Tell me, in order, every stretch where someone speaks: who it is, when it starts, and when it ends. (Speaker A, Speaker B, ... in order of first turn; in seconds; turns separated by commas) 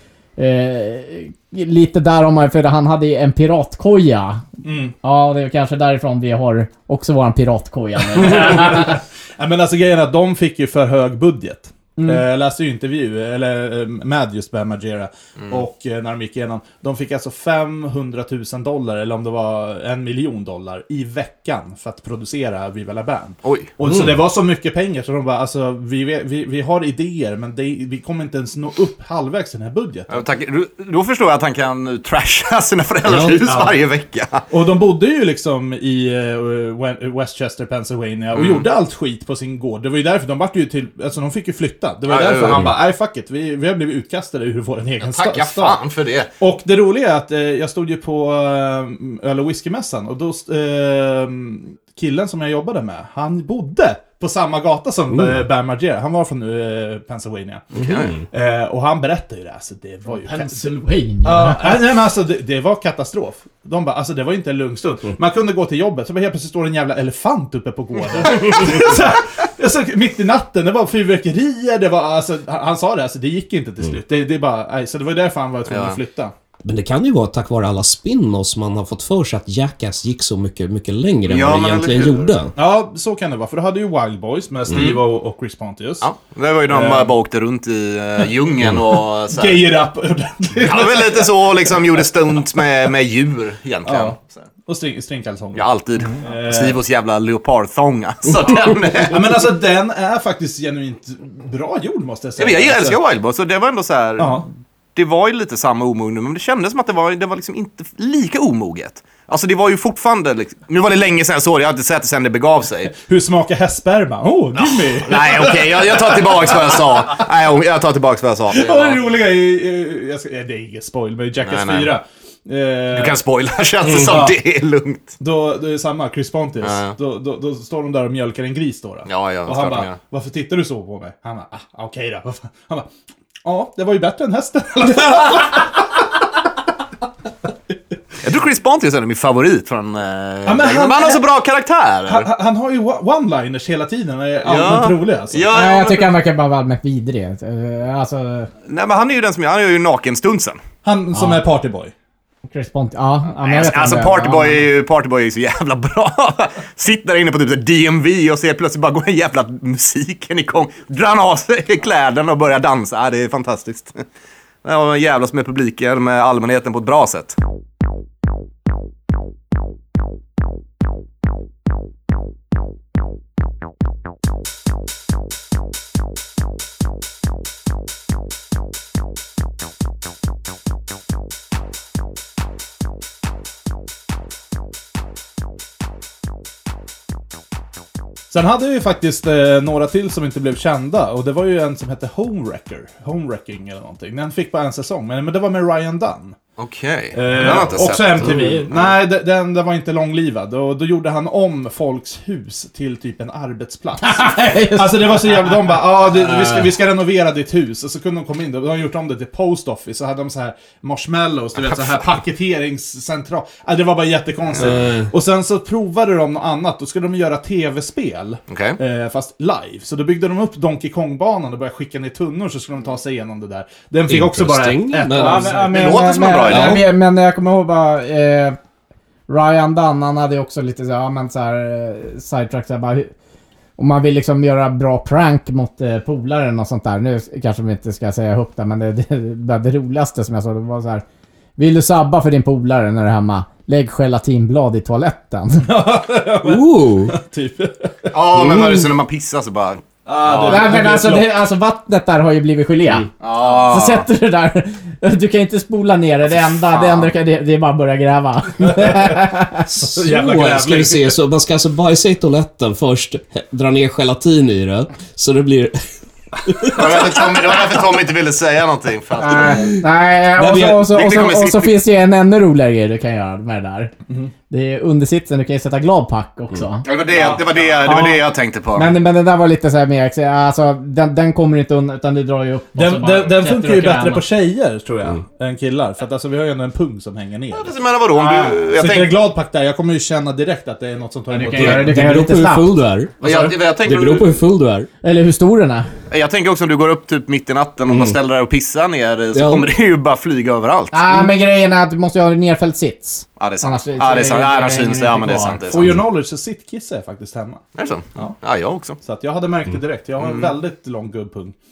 Speaker A: 0.4-4.4, Speaker B: 4.6-4.9, Speaker A: 5.0-9.0, Speaker B: 8.1-30.2, Speaker A: 12.0-12.2, Speaker C: 23.4-23.7, Speaker D: 23.8-24.2, Speaker C: 30.1-34.4, Speaker D: 33.0-33.5, Speaker B: 33.5-33.8, Speaker B: 34.5-45.8, Speaker C: 38.3-38.7, Speaker C: 42.0-42.7, Speaker D: 42.5-42.7, Speaker C: 45.0-46.3, Speaker B: 46.4-60.7, Speaker D: 55.1-55.4, Speaker C: 57.7-58.1, Speaker D: 57.8-58.2, Speaker A: 60.1-61.8, Speaker B: 61.2-76.3, Speaker C: 68.1-68.7, Speaker C: 75.7-76.0, Speaker D: 76.6-82.5, Speaker C: 81.3-82.4, Speaker B: 82.5-86.1, Speaker D: 84.7-84.9, Speaker C: 84.7-85.0, Speaker C: 86.0-89.6, Speaker B: 86.7-87.1, Speaker B: 89.3-91.7, Speaker C: 90.6-94.5, Speaker B: 93.8-96.8, Speaker C: 95.5-99.4, Speaker B: 99.0-103.0, Speaker C: 102.4-112.9, Speaker B: 104.2-104.5, Speaker B: 113.0-117.1, Speaker C: 114.5-119.0, Speaker B: 118.5-123.2, Speaker C: 121.4-122.0, Speaker C: 122.9-125.1, Speaker D: 123.9-124.3, Speaker B: 123.9-124.4, Speaker B: 125.2-132.9, Speaker C: 126.6-127.0, Speaker C: 129.1-130.0, Speaker B: 133.4-135.8, Speaker C: 138.2-142.3, Speaker B: 140.4-141.2, Speaker B: 142.1-145.5, Speaker C: 144.4-146.1, Speaker A: 145.5-148.5, Speaker C: 148.7-150.6, Speaker B: 150.8-151.9, Speaker A: 151.1-151.4, Speaker A: 152.5-154.6, Speaker C: 153.4-164.0, Speaker C: 164.6-167.4, Speaker B: 188.3-196.3, Speaker C: 196.6-198.9, Speaker B: 197.1-226.7, Speaker A: 204.0-205.7, Speaker A: 206.2-206.6, Speaker C: 211.6-212.0, Speaker D: 214.6-215.1, Speaker C: 218.5-218.8, Speaker D: 224.1-225.5, Speaker A: 225.1-228.6, Speaker C: 225.7-226.8, Speaker D: 226.5-226.8, Speaker A: 229.3-233.1, Speaker A: 233.8-241.0, Speaker A: 241.6-245.7, Speaker B: 245.6-248.2, Speaker D: 246.4-247.1, Speaker C: 248.1-250.8, Speaker D: 248.3-248.9, Speaker B: 250.1-251.3, Speaker A: 250.5-253.1, Speaker C: 253.2-254.1, Speaker A: 253.6-259.6, Speaker C: 256.7-257.1, Speaker B: 258.6-259.1, Speaker D: 259.7-265.9, Speaker B: 259.9-261.1, Speaker D: 266.4-267.4, Speaker C: 266.7-269.7, Speaker A: 269.2-273.9, Speaker D: 270.4-270.9, Speaker C: 270.9-271.7, Speaker A: 274.5-276.9, Speaker C: 276.8-278.9, Speaker B: 277.1-277.4, Speaker A: 277.8-278.2, Speaker A: 278.7-284.2, Speaker B: 282.7-287.7, Speaker C: 287.5-289.2, Speaker A: 288.1-288.6, Speaker B: 288.3-292.0, Speaker A: 291.3-293.4, Speaker D: 291.5-294.9, Speaker C: 293.2-294.4, Speaker A: 295.0-295.9, Speaker C: 296.1-301.0, Speaker D: 297.9-298.2, Speaker D: 299.3-299.7, Speaker A: 300.9-305.6, Speaker C: 303.4-305.9, Speaker B: 305.7-307.6, Speaker C: 307.8-309.0, Speaker B: 309.0-311.5, Speaker C: 310.2-310.5